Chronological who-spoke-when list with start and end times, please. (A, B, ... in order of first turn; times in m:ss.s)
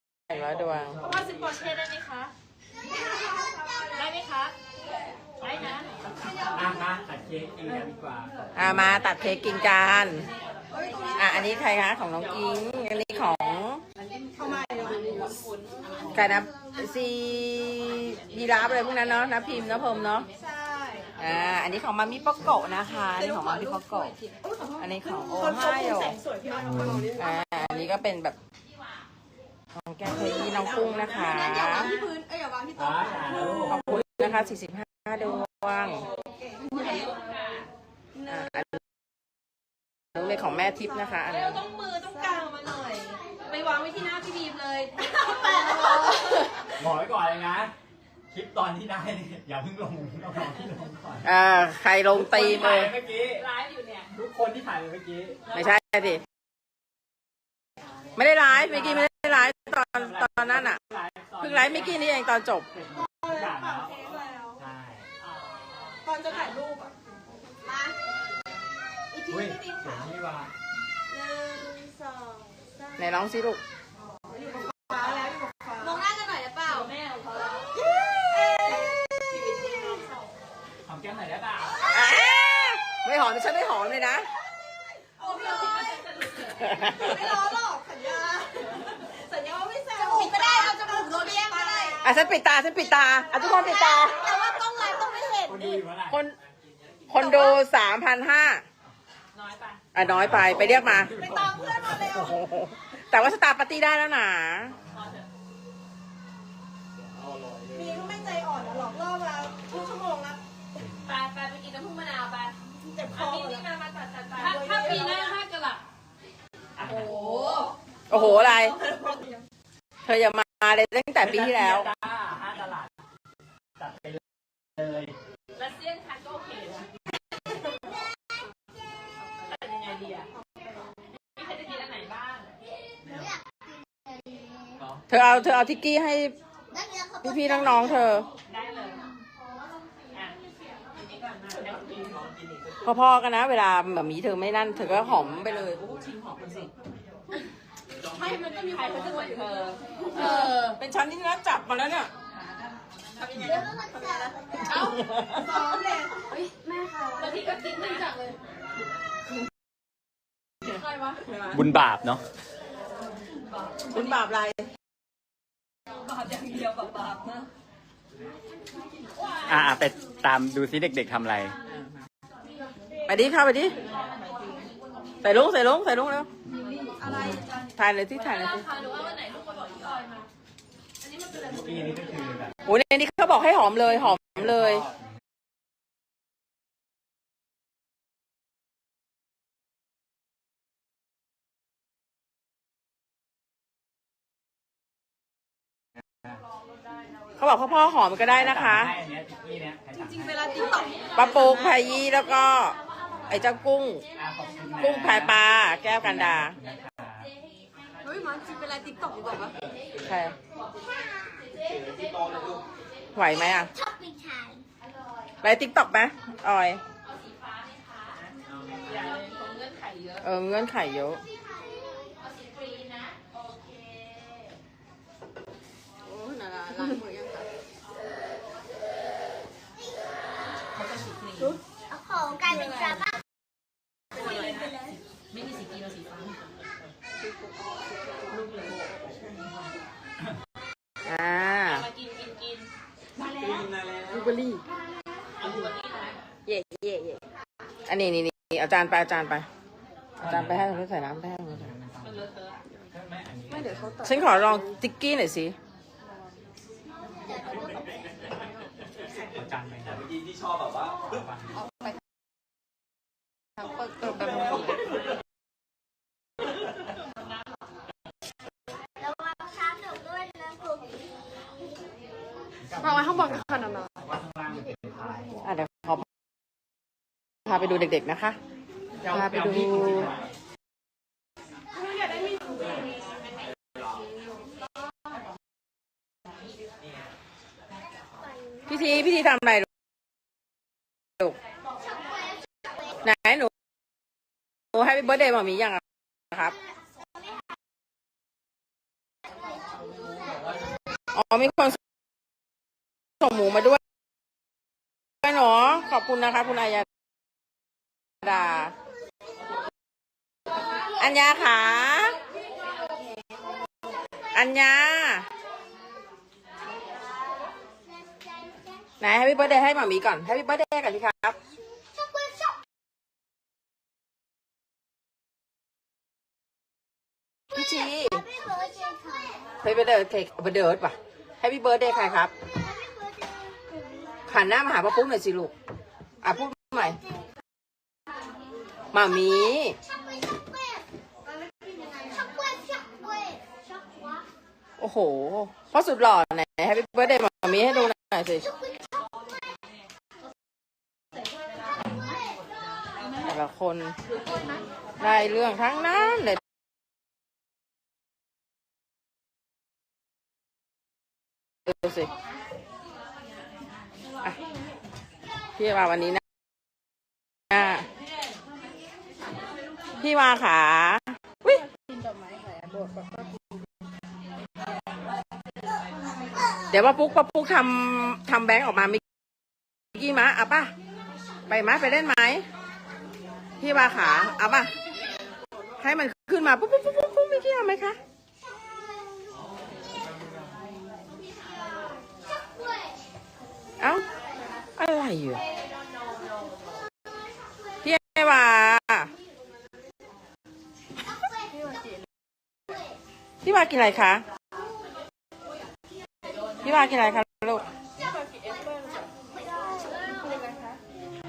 0:00.3-0:01.0 A
0:01.0-0:02.3 B
0:03.3-0:04.1 C
0:04.0-0:04.5 B
0:05.4-0:06.0 B
0:06.5-0:08.3 D
0:08.6-0:10.3 A
0:10.7-0:11.6 C
0:10.9-0:11.6 B
0:11.1-0:13.8 A
0:14.3-0:15.4 C
0:14.4-0:16.4 B
0:16.1-0:20.3 A
0:20.3-0:21.2 C
0:21.2-0:24.2 A
0:23.1-0:27.9 C
0:24.8-0:26.2 A
0:26.7-0:27.0 D
0:27.2-0:28.4 A
0:29.8-0:32.0 A
0:30.1-0:34.0 C
0:32.7-0:34.0 D
0:33.7-0:36.0 A
0:35.9-0:37.2 C
0:36.6-0:37.7 B
0:38.2-0:38.5 C
0:38.3-0:38.8 A
0:40.2-0:41.6 A
0:41.3-0:46.3 B
0:41.3-0:43.0 C
0:45.1-0:46.2 C
0:46.8-0:47.7 D
0:48.3-0:51.3 D
0:51.2-0:52.9 A
0:52.1-0:53.5 D
0:53.3-0:54.1 B
0:54.1-0:55.4 D
0:55.5-0:56.2 A
0:58.2-1:00.8 A
1:00.0-1:02.1 D
1:01.4-1:02.7 A
1:02.7-1:04.0 D
1:03.0-1:04.6 C
1:04.6-1:05.1 D
1:06.0-1:06.9 C
1:07.6-1:08.0 C
1:09.1-1:10.1 C
1:09.3-1:10.5 D
1:11.1-1:13.0 C
1:13.0-1:13.6 A
1:14.3-1:16.1 C
1:15.8-1:17.7 B
1:17.8-1:20.3 C
1:20.8-1:21.8 D
1:21.9-1:24.3 A
1:25.2-1:25.9 C
1:25.2-1:27.0 B
1:26.8-1:32.1 C
1:30.0-1:32.0 B
1:32.0-1:34.4 A
1:33.5-1:35.9 C
1:35.4-1:36.2 D
1:36.1-1:36.4 A
1:37.1-1:38.6 A
1:37.2-1:37.5 C
1:39.3-1:39.8 B
1:39.9-1:41.2 A
1:40.0-1:42.1 D
1:40.7-1:42.5 C
1:42.3-1:44.8 A
1:44.9-1:45.2 B
1:47.2-1:47.8 E
1:47.7-1:50.4 C
1:51.0-1:52.6 B
1:52.8-1:53.7 C
1:53.2-1:55.8 B
1:54.3-1:55.3 C
1:56.8-1:57.1 D
1:56.8-1:59.3 B
1:58.1-1:58.8 A
1:58.9-1:59.3 C
2:00.0-2:01.9 A
2:01.2-2:03.0 D
2:03.8-2:04.2 D
2:04.8-2:05.2 D
2:05.6-2:06.9 B
2:09.4-2:10.3 B
2:11.4-2:12.5 B
2:13.0-2:14.8 F
2:15.1-2:16.4 A
2:16.7-2:18.1 F
2:17.2-2:18.3 A
2:18.5-2:19.1 B
2:21.2-2:22.2 B
2:22.8-2:25.8 A
2:25.6-2:26.7 B
2:28.0-2:30.6 C
2:28.6-2:30.6 B
2:30.1-2:32.1 A
2:33.2-2:38.4 C
2:33.2-2:33.7 B
2:37.2-2:38.1 B
2:40.9-2:41.6 B
2:41.5-2:42.2 D
2:43.9-2:44.7 A
2:46.0-2:47.5 B
2:49.5-2:51.5 D
2:53.1-2:53.8 A
2:55.2-2:56.3 A
2:56.8-2:57.5 C
2:57.8-2:58.7 A
2:58.2-3:00.3 B
3:01.3-3:02.5 D
3:02.7-3:04.9 A
3:17.4-3:18.9 A
3:18.3-3:20.4 D
3:19.9-3:21.2 C
3:20.9-3:21.2 B
3:21.1-3:22.8 A
3:23.3-3:24.0 A
3:24.2-3:27.3 D
3:24.8-3:26.6 A
3:28.0-3:29.6 C
3:30.0-3:30.3 A
3:31.6-3:32.6 E
3:33.2-3:33.7 A
3:33.7-3:34.6 F
3:35.4-3:36.8 A
3:37.2-3:38.0 B
3:38.9-3:40.2 B
3:40.2-3:41.2 A
3:41.2-3:42.2 F
3:42.4-3:43.2 B
3:46.1-3:47.4 A
3:50.8-3:51.6 B
3:51.9-3:53.2 F
3:54.2-3:55.0 F
3:55.3-3:56.4 B
3:58.3-3:58.8 B
4:01.0-4:01.9 A
4:01.7-4:02.7 B
4:03.8-4:04.2 E
4:04.1-4:04.6 C
4:05.4-4:06.2 B
4:06.5-4:07.2 A
4:07.9-4:09.5 A
4:10.2-4:10.8 D
4:10.2-4:11.7 A
4:11.5-4:12.3 D
4:12.0-4:12.6 B
4:12.9-4:14.1 D
4:13.5-4:14.3 C
4:14.0-4:15.6 A
4:17.1-4:18.1 F
4:19.3-4:20.1 D
4:19.9-4:21.2 E
4:21.1-4:21.5 D
4:29.0-4:31.3 F
4:32.7-4:33.5 D
4:32.8-4:33.9 C
4:34.0-4:35.3 D
4:35.4-4:36.0 A
4:37.5-4:38.4 A
4:39.0-4:40.3 D
4:39.1-4:40.1 A
4:41.8-4:42.8 C
4:48.7-4:49.7 A
4:51.8-4:52.6 F
4:53.0-4:53.5 A
4:54.7-4:56.5 A
5:01.1-5:01.8 A
5:03.2-5:03.8 A
5:05.2-5:06.9 A
5:08.2-5:08.7 A
5:11.0-5:12.2 A
5:14.3-5:15.3 A
5:18.0-5:18.6 F
5:19.0-5:21.4 A
5:22.0-5:22.5 F
5:27.6-5:28.2 A
5:28.2-5:29.6 F
5:29.6-5:32.3 A
5:32.6-5:34.2 F
5:34.3-5:35.5 A
5:36.2-5:37.0 A
5:38.9-5:39.8 A
5:39.9-5:40.9 F
5:42.0-5:44.2 F
5:44.8-5:48.4 A
5:48.5-5:49.0 F
5:53.2-5:54.0 A
5:55.0-5:56.4 A
6:01.7-6:02.1 A
6:05.6-6:06.2 A
6:07.5-6:07.9 A
6:10.0-6:11.6 A
6:11.7-6:13.4 C
6:16.7-6:19.0 A
6:19.9-6:20.7 A
6:21.5-6:22.4 A
6:23.6-6:24.7 A
6:25.8-6:28.0 A
6:34.8-6:35.4 A
6:37.8-6:39.1 A
6:41.5-6:42.0 C
6:43.4-6:44.2 A
6:46.6-6:47.6 A
6:48.0-6:49.1 C
6:49.5-6:50.0 F
6:50.1-6:50.8 C